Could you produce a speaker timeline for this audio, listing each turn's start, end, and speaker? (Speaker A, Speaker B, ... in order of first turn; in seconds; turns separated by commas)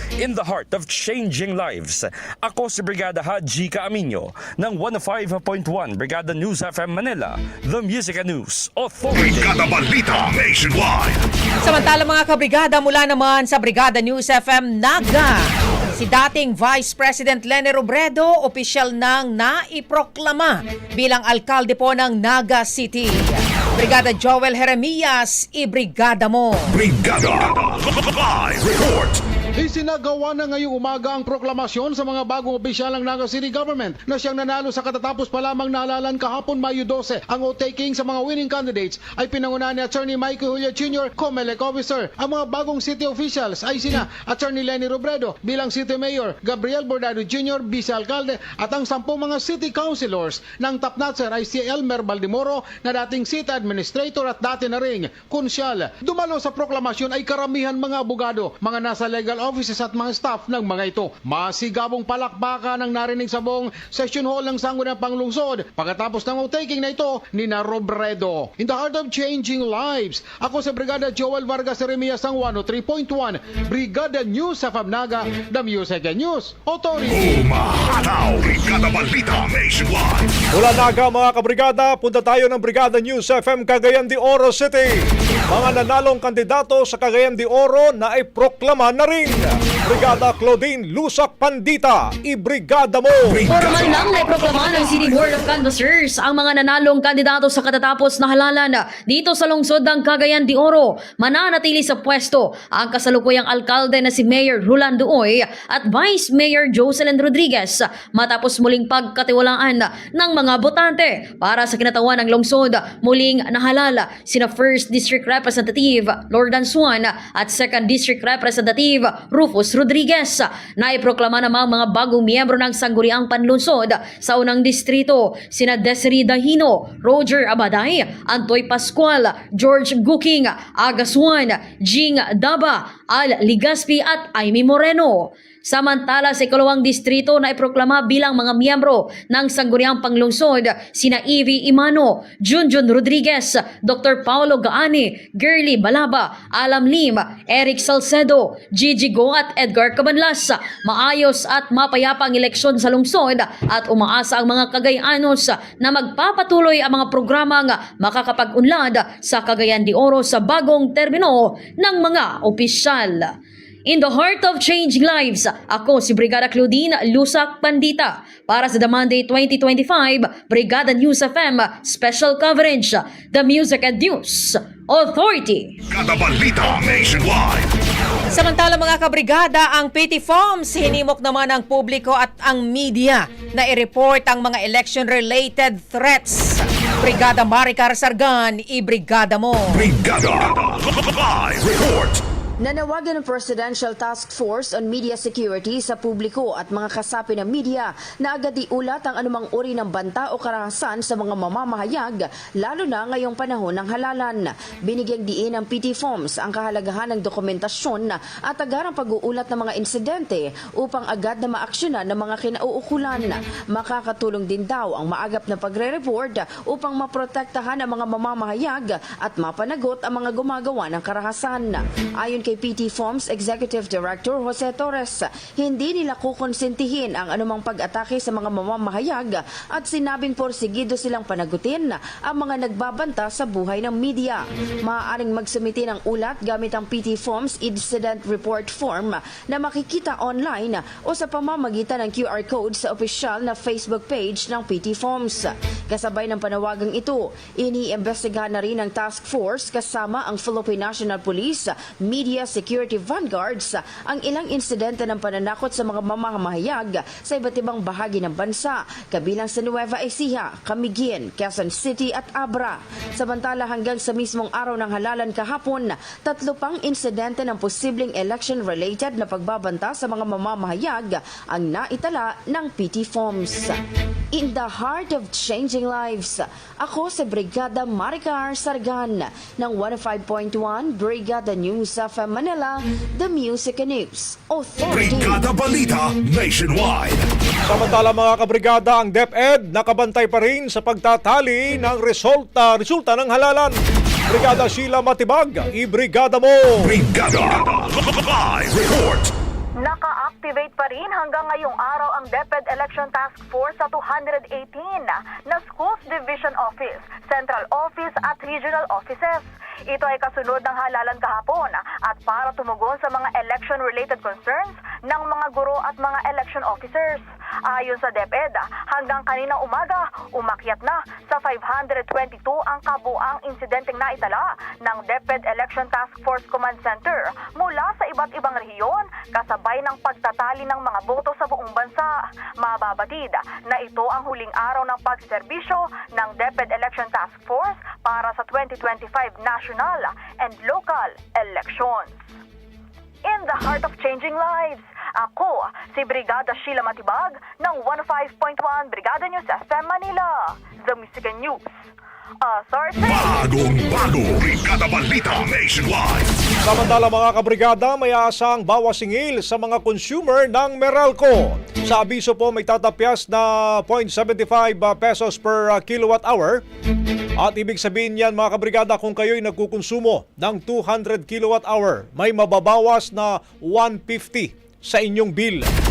Speaker A: 0.2-9.7, Speaker B: 9.1-11.2, Speaker C: 11.6-26.7, Speaker B: 26.7-29.2, Speaker D: 29.6-77.4, Speaker B: 77.1-80.3, Speaker E: 80.5-93.4, Speaker B: 93.3-95.2, Speaker F: 93.5-175.8, Speaker B: 175.9-177.7, Speaker C: 178.3-189.8, Speaker B: 189.7-192.2, Speaker G: 192.6-273.8, Speaker G: 274.3-285.5, Speaker B: 284.9-287.2, Speaker E: 287.7-293.8, Speaker E: 294.3-296.9, Speaker B: 296.8-299.3, Speaker H: 299.8-342.2, Speaker H: 343.2-351.7, Speaker H: 352.4-353.3, Speaker B: 353.0-356.3, Speaker E: 356.6-366.6, Speaker E: 367.4-375.7